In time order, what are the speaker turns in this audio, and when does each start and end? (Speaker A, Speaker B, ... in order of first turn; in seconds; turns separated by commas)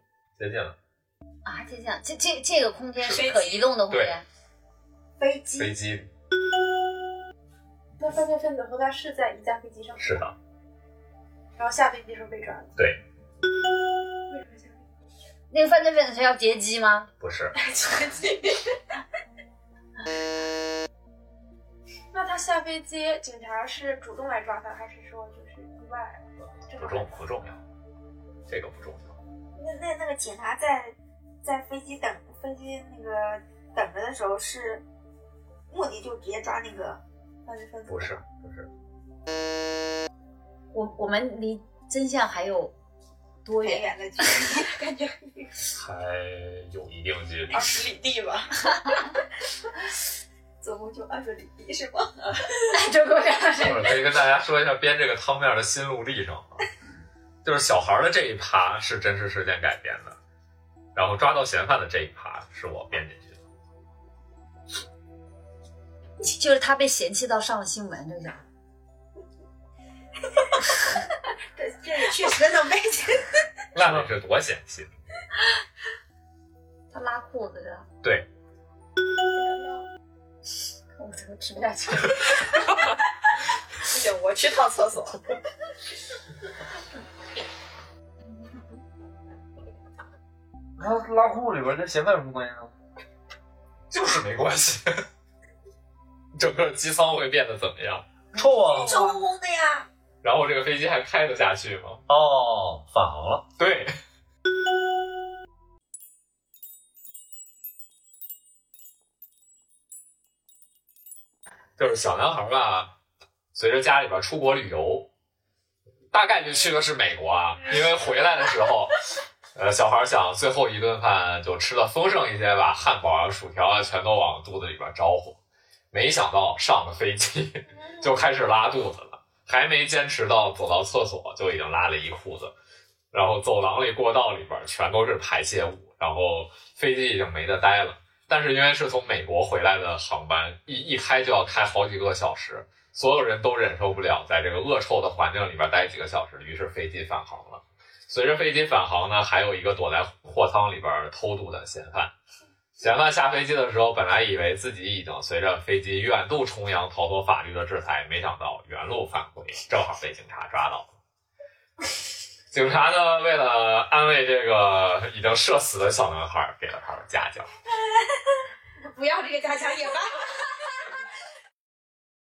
Speaker A: 0.4-0.8, Speaker B: 1.4-4.2, Speaker C: 3.1-3.7, Speaker A: 3.9-4.2, Speaker D: 5.2-5.8, Speaker A: 5.6-6.1, Speaker E: 8.0-10.1, Speaker A: 10.0-10.3, Speaker E: 11.6-12.7, Speaker A: 12.8-13.0, Speaker E: 14.3-14.8, Speaker B: 15.5-17.1, Speaker A: 17.2-17.6, Speaker C: 17.7-18.5, Speaker E: 22.1-27.1, Speaker A: 26.4-27.6, Speaker A: 28.5-29.2, Speaker D: 29.6-34.8, Speaker D: 35.7-38.2, Speaker A: 37.9-38.7, Speaker B: 40.7-42.7, Speaker B: 43.5-43.9, Speaker D: 43.6-45.5, Speaker A: 45.7-47.9, Speaker C: 47.5-48.5, Speaker D: 50.6-52.2, Speaker B: 52.7-54.0, Speaker A: 53.6-56.6, Speaker A: 57.4-60.2, Speaker A: 61.0-63.4, Speaker B: 66.2-68.4, Speaker D: 71.6-73.3, Speaker A: 73.7-74.9, Speaker B: 76.9-77.9, Speaker B: 81.0-82.5, Speaker C: 83.8-85.2, Speaker F: 90.8-92.7, Speaker A: 93.9-95.0, Speaker A: 96.3-98.1, Speaker F: 98.3-99.1, Speaker D: 98.7-99.9, Speaker A: 100.2-102.0, Speaker F: 102.1-103.5, Speaker A: 103.6-103.9, Speaker A: 111.8-112.9, Speaker A: 113.5-115.1, Speaker A: 116.1-119.0, Speaker A: 119.6-125.4, Speaker A: 125.9-132.6, Speaker A: 133.1-152.1, Speaker A: 152.8-160.9, Speaker A: 162.5-167.5, Speaker E: 169.0-169.2